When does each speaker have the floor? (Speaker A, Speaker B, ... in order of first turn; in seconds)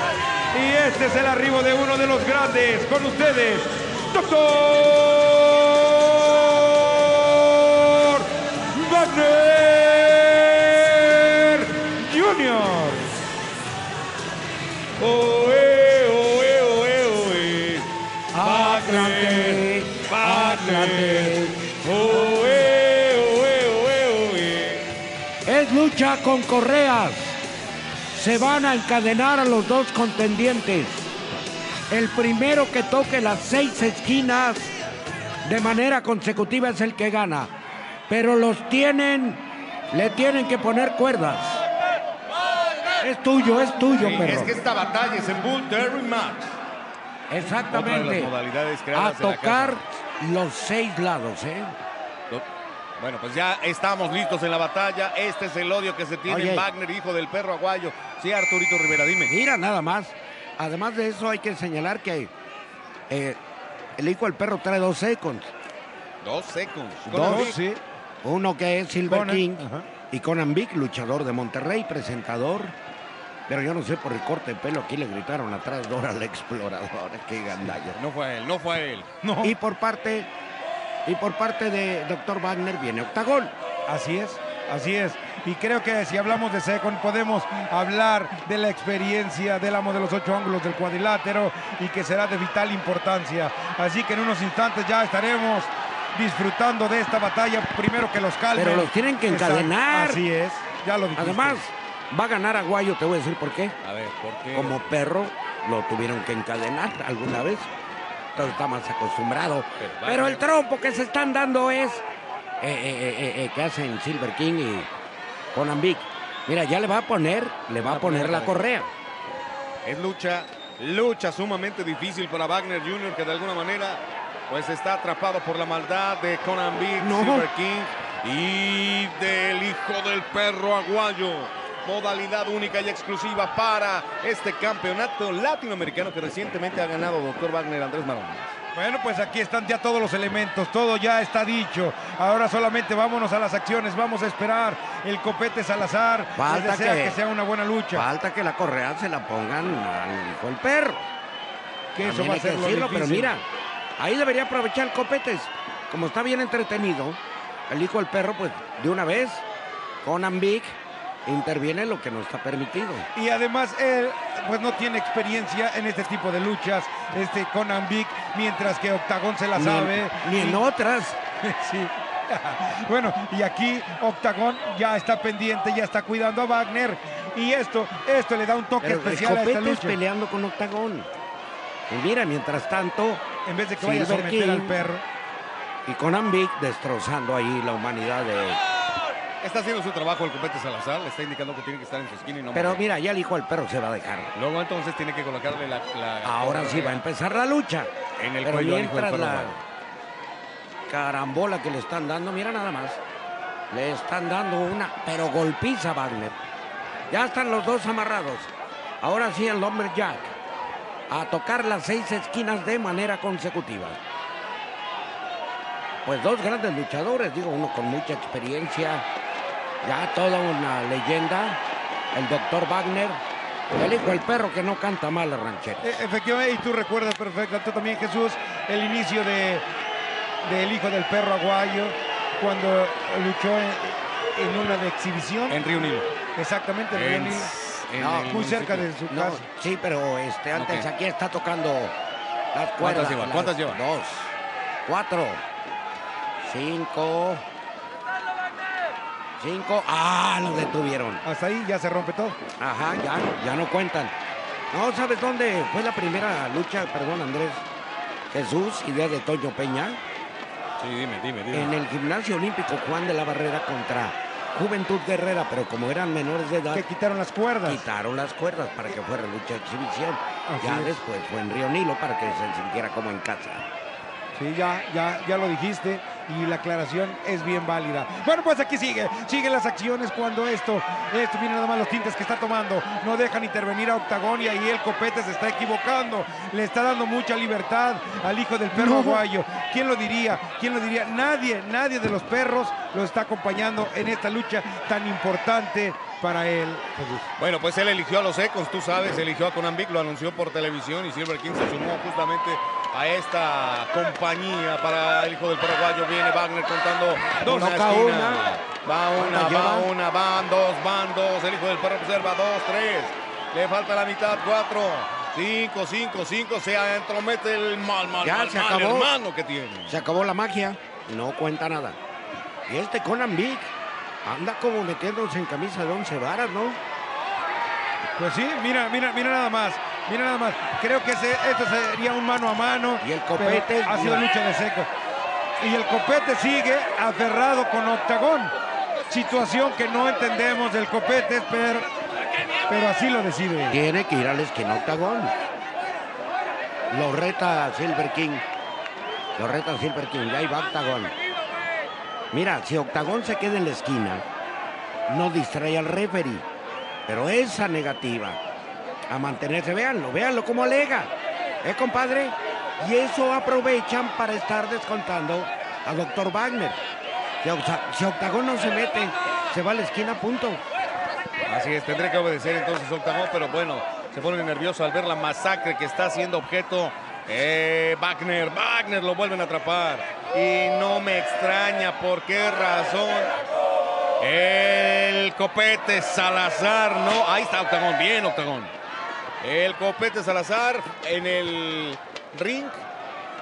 Speaker A: 0.5-13.1, 67.2-67.8, 69.1-69.9, 79.2-79.5, 83.9-101.7, 138.7-148.1, 151.9-153.3, 163.1-170.6, 171.4-180.0, 183.4-185.0, 225.8-229.6, 230.4-235.6, 236.3-237.5, 238.2-239.4, 251.2-252.4, 266.7-267.8, 270.5-270.9, 274.4-297.3, 328.2-334.9, 335.6-338.5, 339.1-341.9, 342.7-343.8
Speaker B: 15.0-24.8, 44.0-46.5, 47.5-49.8, 53.0-59.3, 66.2-67.6, 77.9-79.1, 103.8-104.9, 109.8-110.4, 117.8-118.6, 119.8-138.6, 189.4-192.8, 194.3-197.0, 198.2-199.6, 235.5-236.1, 236.9-238.9, 240.5-240.9, 242.8-243.8, 260.8-261.8, 297.4-319.9, 371.5-383.3, 384.2-388.7, 389.4-392.8
Speaker C: 18.3-21.6, 25.4-27.4, 28.1-31.1, 31.9-34.7, 35.4-37.5, 38.1-41.6, 43.0-44.5, 47.3-48.3, 48.9-51.7, 56.3-56.7, 59.2-62.3, 63.1-63.4, 64.0-65.5, 67.0-67.5, 68.2-72.7, 73.5-78.0, 79.4-80.3, 81.0-83.5, 98.5-100.2, 101.2-103.8, 104.5-107.7, 108.3-112.0, 112.6-114.9, 115.5-118.9, 127.0-127.5, 146.3-147.2, 147.9-151.1, 152.0-153.4, 154.0-159.4, 160.0-163.1, 169.6-171.2, 178.8-181.1, 181.9-183.2, 183.8-184.8, 185.8-188.6, 192.5-194.3, 196.2-197.9, 198.4-199.6, 200.9-203.0, 203.7-206.3, 207.1-210.4, 211.1-214.0, 216.0-219.1, 219.8-221.6, 222.1-223.2, 223.7-225.9, 238.0-238.4, 239.1-241.9, 242.5-245.4, 246.4-247.4, 249.4-251.2, 252.6-254.1, 254.7-257.6, 258.3-260.0, 261.5-266.8, 267.6-273.6, 288.7-289.2, 307.4-308.4, 309.1-309.9, 318.2-319.1, 319.9-322.0, 322.7-323.7, 324.2-326.8, 333.0-334.2, 343.7-345.3, 346.9-348.4, 349.4-351.1, 352.3-354.2, 355.1-356.4, 357.1-358.4, 359.1-361.1, 361.6-366.8, 367.4-370.6